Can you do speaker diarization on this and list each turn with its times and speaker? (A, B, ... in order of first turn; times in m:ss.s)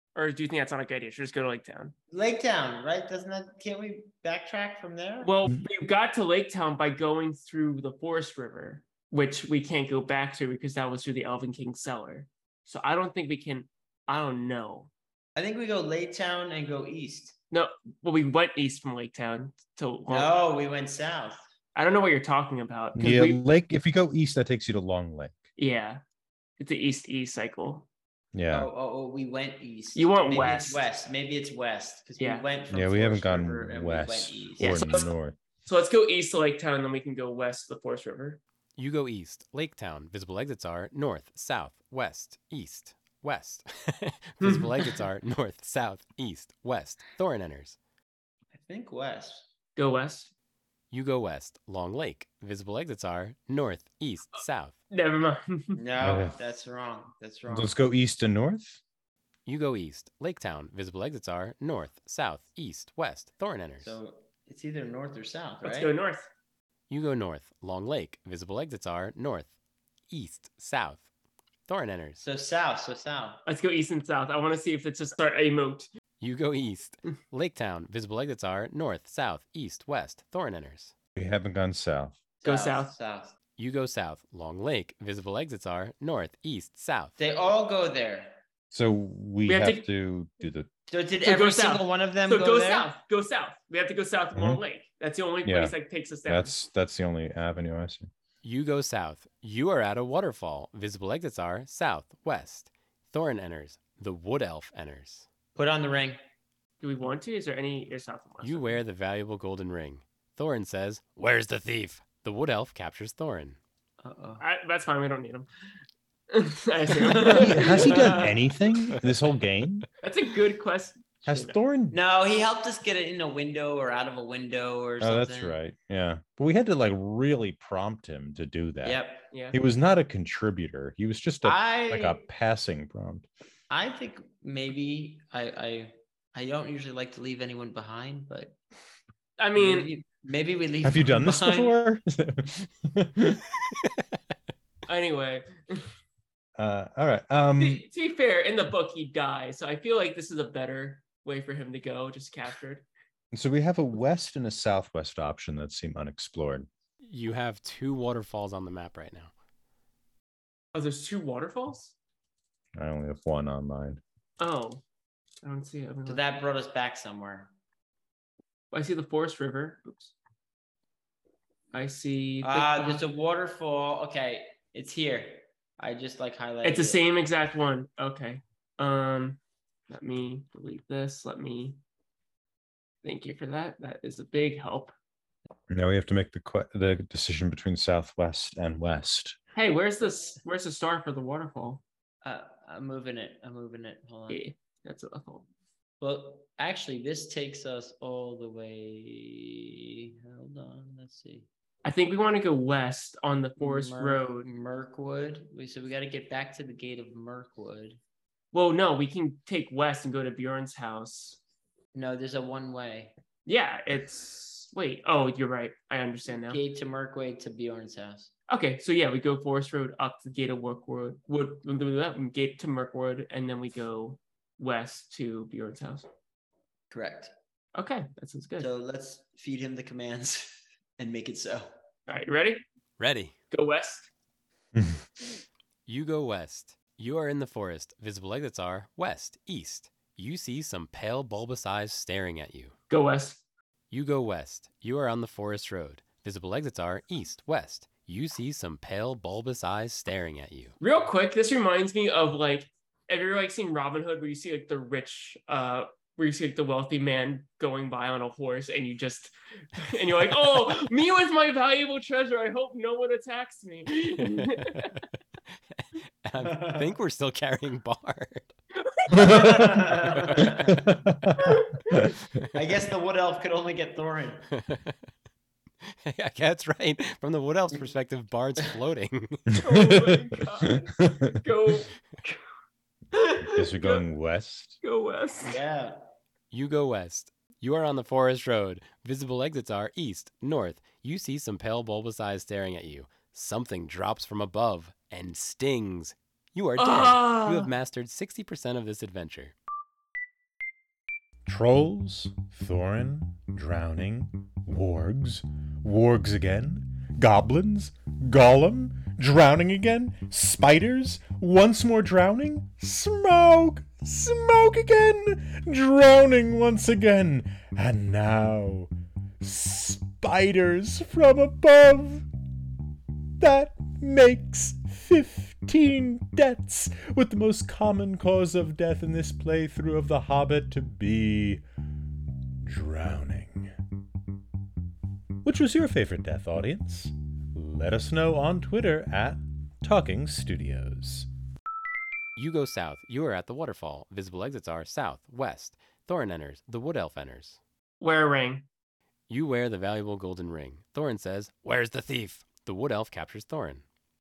0:00.2-0:02.0 A
0:02.1-0:05.3 B
0:05.2-0:14.9 A
0:15.4-0:17.3 B
0:17.5-0:20.3 A
0:20.1-0:21.4 B
0:21.8-0:23.4 A
0:23.0-0:25.5 C
0:25.6-0:26.0 A
0:26.6-0:27.9 A
0:28.3-0:28.7 C
0:28.5-0:35.0 B
0:30.0-0:30.8 A
0:32.2-0:32.5 A
0:32.7-0:35.4 C
0:34.6-0:35.1 A
0:35.6-0:38.4 A
0:38.8-0:47.8 D
0:44.4-0:45.0 A
0:48.6-0:49.5 B
0:49.8-0:50.3 A
0:50.9-0:54.8 D
0:54.9-0:55.8 A
0:55.8-0:57.7 B
0:56.0-0:56.4 C
0:57.5-0:58.8 C
0:59.5-1:03.9 D
1:03.8-1:05.9 B
1:05.6-1:06.3 A
1:06.9-1:09.5 D
1:10.1-1:11.0 D
1:11.7-1:12.2 D
1:12.2-1:13.4 B
1:13.5-1:15.9 A
1:16.2-1:20.9 D
1:21.2-1:22.2 C
1:22.4-1:23.3 B
1:22.4-1:22.9 A
1:23.6-1:27.2 D
1:27.2-1:28.4 B
1:28.7-1:30.7 C
1:29.5-1:29.9 A
1:30.9-1:32.9 B
1:31.2-1:36.5 A
1:34.3-1:34.6 C
1:35.4-1:35.8 C
1:36.3-1:38.1 C
1:38.4-1:45.3 D
1:45.6-1:46.2 B
1:46.8-1:48.8 A
1:48.4-1:53.6 D
1:54.0-1:54.4 B
1:54.4-1:55.5 A
1:56.3-1:58.5 A
1:57.1-1:58.2 B
1:57.3-1:59.9 C
2:00.0-2:01.6 A
2:01.3-2:02.0 C
2:01.9-2:05.6 B
2:05.0-2:09.0 C
2:08.8-2:09.3 B
2:09.3-2:09.6 A
2:09.5-2:13.3 C
2:11.4-2:12.2 B
2:13.7-2:18.6 B
2:19.4-2:19.9 A
2:19.6-2:21.8 B
2:20.8-2:23.5 C
2:24.9-2:25.9 A
2:26.6-2:27.8 C
2:27.6-2:32.9 A
2:33.3-2:36.7 C
2:37.0-2:39.3 D
2:40.7-2:41.9 A
2:42.8-2:44.0 C
2:44.4-2:44.8 A
2:45.4-2:46.2 A
2:46.1-2:47.5 B
2:48.7-2:50.1 A
2:51.7-2:53.0 A
2:52.4-2:57.0 B
2:56.6-3:01.8 A
3:03.0-3:04.9 A
3:05.7-3:09.4 C
3:09.6-3:11.8 A
3:12.2-3:14.4 B
3:14.3-3:15.5 A
3:16.0-3:21.5 B
3:21.8-3:24.5 A
3:23.6-3:28.0 B
3:28.5-3:31.4 A
3:31.9-3:33.2 B
3:33.5-3:36.6 A
3:36.3-3:38.3 B
3:38.5-3:46.1 A
3:46.9-3:47.3 B
3:47.8-3:48.7 A
3:48.6-3:51.7 B
3:52.1-3:52.6 A
3:53.0-3:53.3 D
3:53.5-3:54.1 A
3:54.8-3:55.0 C
3:55.9-4:02.8 D
4:02.9-4:03.4 A
4:03.9-4:10.8 D
4:10.8-4:24.9 A
4:24.2-4:25.0 D
4:25.8-4:28.5 D
4:26.4-4:26.9 B
4:28.9-4:29.6 A
4:29.1-4:30.8 B
4:29.1-4:32.1 C
4:30.1-4:30.7 D
4:32.5-4:34.5 B
4:34.5-4:35.0 D
4:35.9-4:39.6 D
4:39.6-4:42.4 A
4:39.7-4:40.1 C
4:41.1-4:41.4 C
4:43.1-4:44.0 A
4:43.4-4:44.8 C
4:44.8-4:45.6 A
4:45.4-4:46.0 B
4:46.5-4:59.5 D
4:56.8-4:57.7 A
5:01.5-5:22.3 C
5:23.4-5:31.6 C
5:32.6-5:33.7 C
5:35.4-5:41.3 C
5:42.4-5:47.6 D
5:48.0-5:48.7 A
5:49.3-5:53.8 D